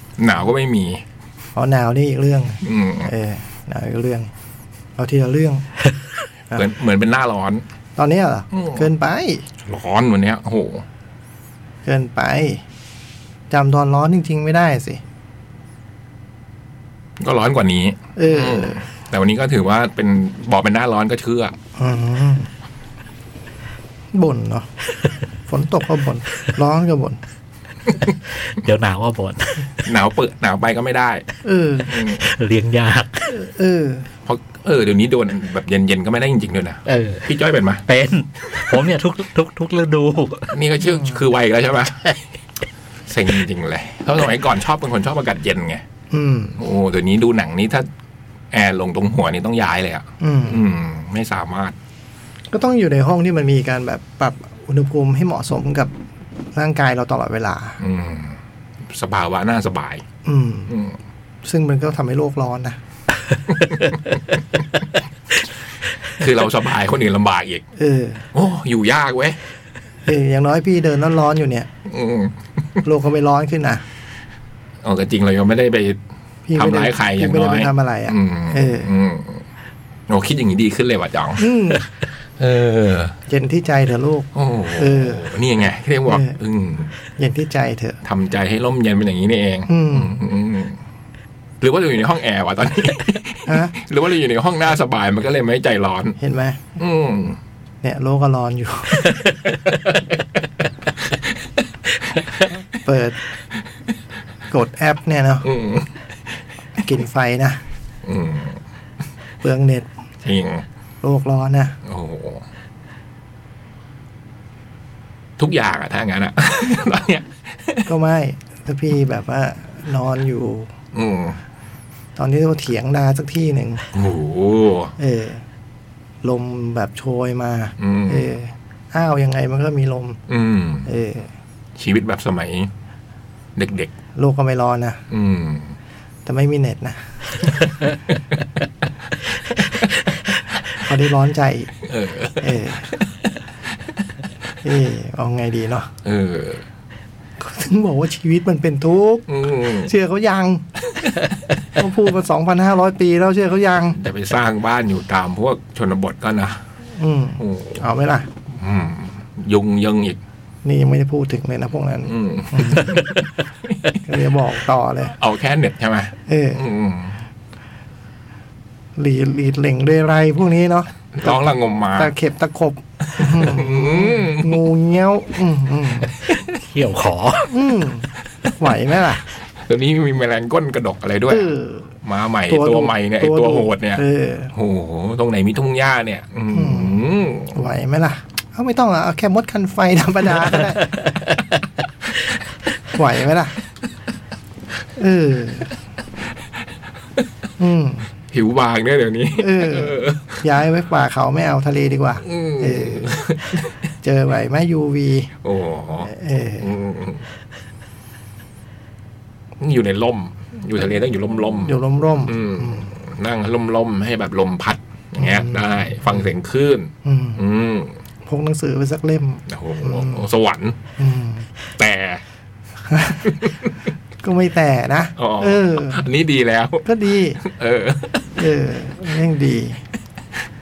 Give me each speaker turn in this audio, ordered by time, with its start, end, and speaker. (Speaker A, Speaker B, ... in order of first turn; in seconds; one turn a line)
Speaker A: 0.2-1.0
Speaker B: 1.6-4.3
Speaker A: 2.6-3.1
Speaker B: 5.0-5.7
Speaker A: 6.5-7.6
Speaker B: 8.0-9.5
Speaker A: 8.5-8.8
Speaker A: 9.6-10.8
Speaker B: 11.8-12.6
Speaker B: 13.5-15.0
Speaker A: 17.2-21.6
Speaker B: 18.2-18.9
Speaker B: 21.8-22.5
Speaker B: 24.1-24.7
Speaker B: 25.5-27.2
Speaker C: 28.4-29.7
Speaker A: 29.8-31.3
Speaker B: 31.4-31.9
Speaker A: 31.9-32.3
Speaker C: 32.0-33.3
Speaker B: 33.3-34.1
Speaker A: 34.3-37.9
Speaker C: 36.9-37.3
Speaker C: 37.9-40.5
Speaker A: 40.5-42.2
Speaker B: 40.9-41.2
Speaker A: 43.1-45.8
Speaker B: 46.1-46.6
Speaker A: 46.6-47.9
Speaker A: 48.5-51.8
Speaker B: 50.2-50.6
Speaker B: 52.5-55.9
Speaker B: 56.5-57.8
Speaker A: 57.8-58.4
Speaker A: 58.9-60.0
Speaker B: 60.2-60.7
Speaker A: 60.7-61.0
Speaker B: 61.4-62.8
Speaker A: 66.1-67.7
Speaker B: 67.8-68.2
Speaker A: 68.3-69.4
Speaker B: 70.1-71.7
Speaker A: 71.9-72.8
Speaker B: 72.8-73.8
Speaker A: 74.8-76.0
Speaker B: 76.5-78.9
Speaker A: 76.6-79.4
Speaker A: 80.1-81.5
Speaker B: 81.4-81.8
Speaker A: 82.4-83.2
Speaker B: 83.3-85.3
Speaker A: 84.3-86.9
Speaker B: 86.1-86.4
Speaker B: 87.2-88.0
Speaker A: 88.0-90.8
Speaker B: 89.7-90.2
Speaker A: 91.6-96.2
Speaker B: 93.5-93.7
Speaker B: 96.2-96.6
Speaker A: 96.8-97.4
Speaker B: 97.8-99.1
Speaker A: 99.7-100.0
Speaker B: 102.8-103.2
Speaker B: 104.5-105.5
Speaker A: 105.5-105.9
Speaker B: 106.8-107.6
Speaker A: 108.0-108.6
Speaker B: 109.4-109.9
Speaker A: 110.2-110.7
Speaker B: 111.0-111.8
Speaker A: 111.9-112.5
Speaker A: 115.4-117.9
Speaker B: 117.8-120.7
Speaker A: 120.9-121.4
Speaker B: 122.2-123.8
Speaker A: 123.9-125.0
Speaker B: 125.0-125.4
Speaker B: 126.2-130.2
Speaker A: 127.8-128.2
Speaker A: 130.3-130.9
Speaker B: 130.8-131.3
Speaker A: 131.8-132.7
Speaker A: 133.6-133.9
Speaker B: 134.2-135.0
Speaker A: 135.1-135.7
Speaker B: 136.3-137.5
Speaker B: 140.7-141.7
Speaker A: 141.8-142.5
Speaker B: 142.4-142.9
Speaker B: 144.6-145.9
Speaker A: 146.1-146.6
Speaker B: 147.4-150.7
Speaker A: 149.3-149.9
Speaker B: 151.8-154.0
Speaker A: 154.0-156.6
Speaker B: 157.0-158.3
Speaker A: 157.4-157.8
Speaker A: 158.5-160.2
Speaker B: 160.6-163.0
Speaker A: 162.1-163.9
Speaker B: 164.1-165.2
Speaker A: 165.2-167.2
Speaker B: 166.3-166.6
Speaker B: 169.0-176.2
Speaker A: 171.1-172.1
Speaker A: 173.2-174.6
Speaker C: 176.5-177.6
Speaker B: 177.5-179.2
Speaker A: 179.7-187.6
Speaker B: 181.3-181.9
Speaker B: 182.5-184.5
Speaker B: 186.5-191.0
Speaker B: 192.9-193.6
Speaker B: 195.0-195.7
Speaker B: 197.6-198.1
Speaker A: 198.3-200.4
Speaker B: 199.4-203.2
Speaker A: 202.3-203.7
Speaker B: 204.0-205.3
Speaker A: 205.4-207.2
Speaker B: 206.0-206.7
Speaker A: 209.6-217.9
Speaker B: 211.7-212.9
Speaker B: 215.2-216.2
Speaker B: 217.0-217.4
Speaker B: 218.3-220.3
Speaker A: 219.5-220.8
Speaker B: 221.0-221.5
Speaker A: 221.8-222.2
Speaker B: 222.9-223.4
Speaker B: 224.2-226.1
Speaker A: 225.2-226.9
Speaker B: 226.8-227.4
Speaker A: 227.4-228.3
Speaker B: 228.4-229.8